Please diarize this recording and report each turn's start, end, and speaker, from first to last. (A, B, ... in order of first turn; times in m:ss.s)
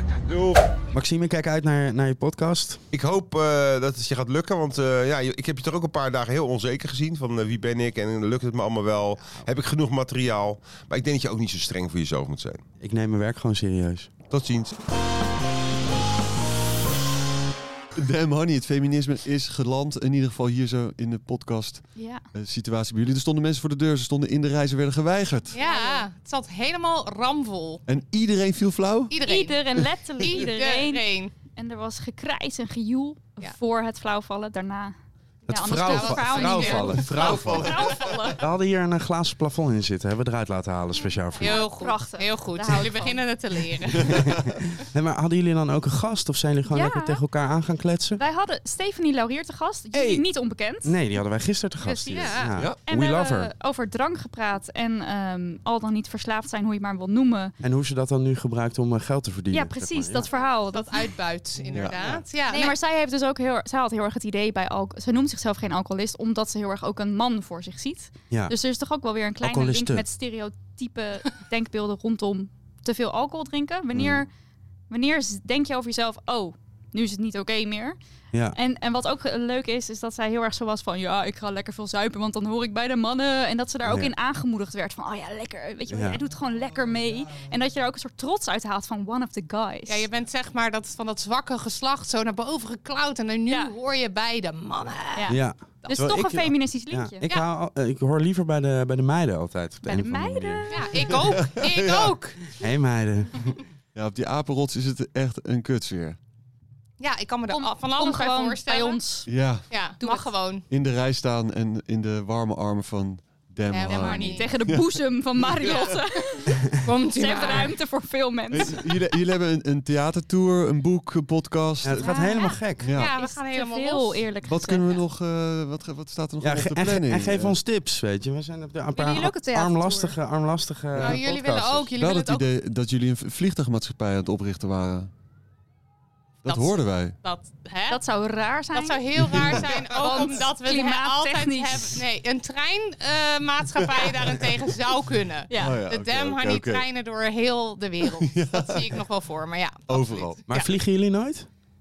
0:00.2-0:00.6 A
0:00.9-0:02.8 B
0:02.9-0:12.6 A
0:12.8-0:14.1 B
0:14.3-0:14.8 A
0:18.0-0:25.6 C
0:22.0-0:22.2 D
0:25.5-0:27.8 E
0:25.6-0:26.0 D
0:27.9-0:29.1 C
0:29.1-0:31.4 E
0:29.2-0:34.9 D
0:35.5-0:37.2 E
0:35.5-0:37.7 B
0:35.5-0:38.4 D
0:37.0-0:38.3 C
0:38.4-0:41.6 B
0:41.4-0:43.2 D
0:41.4-0:44.2 E
0:44.1-0:48.2 B
0:46.7-0:47.2 D
0:48.2-0:51.0 D
0:49.9-0:50.2 B
0:50.8-0:53.5 B
0:51.8-0:52.6 E
0:52.8-0:57.5 D
0:57.6-1:00.3 B
0:59.5-1:01.1 D
1:00.3-1:02.7 E
1:01.7-1:02.0 C
1:02.4-1:14.3 D
1:08.3-1:08.5 B
1:09.4-1:10.0 B
1:13.9-1:14.2 B
1:14.9-1:18.0 D
1:18.5-1:30.1 D
1:23.8-1:24.1 B
1:25.9-1:26.2 B
1:29.9-1:35.3 E
1:33.5-1:33.7 D
1:35.2-1:37.2 D
1:35.3-1:40.7 B
1:39.8-1:41.0 D
1:40.7-1:42.4 E
1:40.9-1:42.2 C
1:42.6-1:43.5 B
1:43.9-1:46.2 C
1:47.0-1:49.2 E
1:47.5-1:49.3 D
1:49.3-1:49.7 C
1:49.7-1:50.6 E
1:50.0-1:50.4 D
1:50.7-1:56.0 C
1:53.7-1:54.6 E
1:53.9-1:58.8 D
1:55.6-1:56.0 E
1:56.8-1:57.8 E
1:58.5-2:02.2 C
2:01.8-2:02.8 B
2:02.0-2:05.0 D
2:02.4-2:04.2 E
2:02.8-2:03.2 C
2:04.4-2:07.6 C
2:06.4-2:11.2 B
2:08.9-2:10.2 D
2:11.0-2:12.4 E
2:11.0-2:15.1 C
2:16.4-2:17.2 C
2:16.4-2:18.0 E
2:17.9-2:22.0 D
2:18.7-2:30.7 E
2:19.2-2:19.7 C
2:24.0-2:24.4 C
2:25.5-2:25.8 D
2:25.5-2:26.8 C
2:28.0-2:29.0 C
2:29.9-2:30.4 C
2:30.5-2:31.5 B